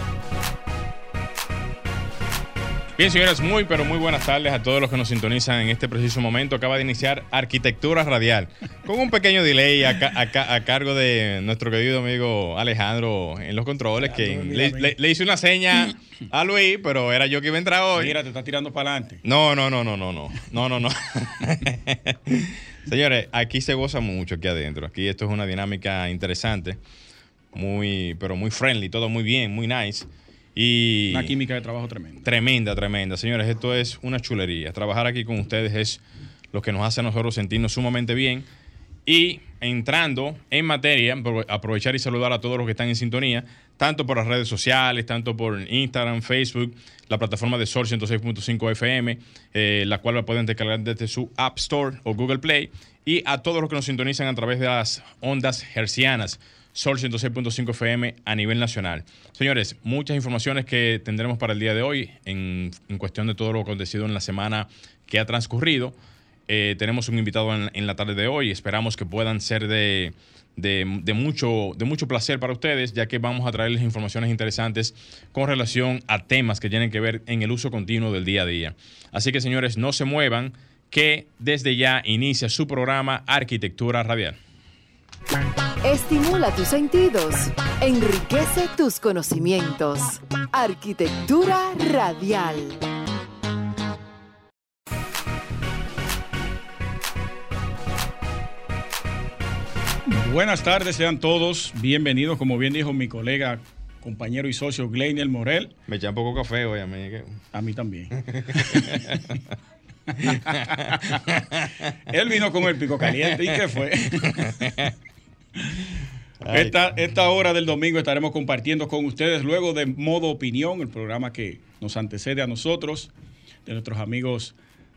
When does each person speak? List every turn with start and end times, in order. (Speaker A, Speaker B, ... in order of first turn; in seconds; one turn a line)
Speaker A: 3.0-18.2
Speaker B: 14.0-14.9
Speaker B: 17.9-19.2
Speaker A: 19.2-26.8
Speaker A: 27.5-31.4
Speaker B: 31.1-32.2
Speaker A: 32.2-38.5
Speaker A: 39.0-84.4
Speaker C: 85.8-92.8
Speaker B: 100.0-105.7
Speaker A: 105.9-107.4
Speaker B: 107.5-109.0
Speaker A: 108.1-109.5
Speaker A: 110.2-111.9
Speaker B: 110.3-111.0
Speaker B: 112.1-114.8
Speaker A: 113.3-113.6
Speaker A: 114.1-114.9
Speaker A: 116.4-116.9
Speaker B: 116.5-123.1
Speaker B: 123.6-124.5